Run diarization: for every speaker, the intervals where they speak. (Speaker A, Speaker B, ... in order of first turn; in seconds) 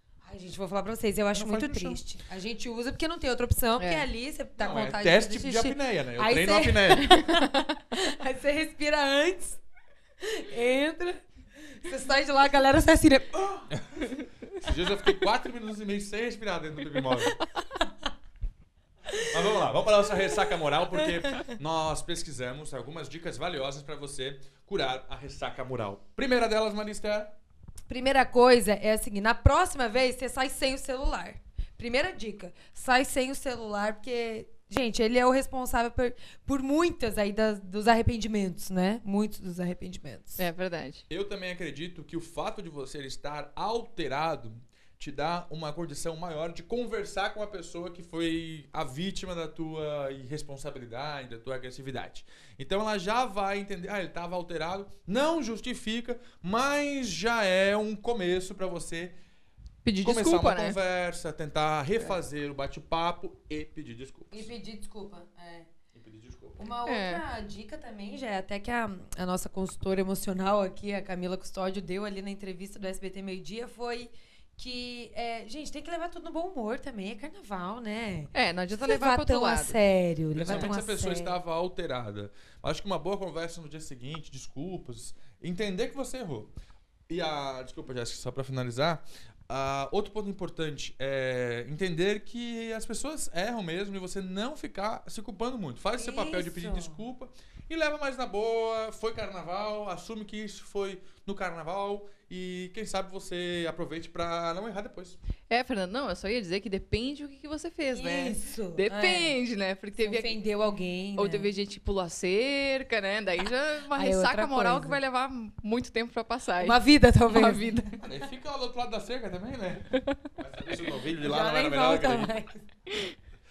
Speaker A: 0.2-9.6, 10.2-13.7, 27.9-40.5, 64.3-65.7, 66.6-81.4, 96.0-97.0, 107.9-109.3, 109.9-111.5, 113.9-115.0, 116.6-118.0, 121.2-122.6
Speaker B: 1.3-2.0, 4.6-7.1, 14.6-17.4, 19.1-27.3, 41.1-59.1, 60.0-64.5, 65.9-66.6, 80.3-86.5, 87.1-105.2, 118.0-122.3
Speaker C: 3.8-4.0, 7.0-7.7, 40.4-41.0, 59.8-60.8, 66.8-67.2, 78.3-79.8, 80.5-80.7, 105.5-110.3, 111.2-117.9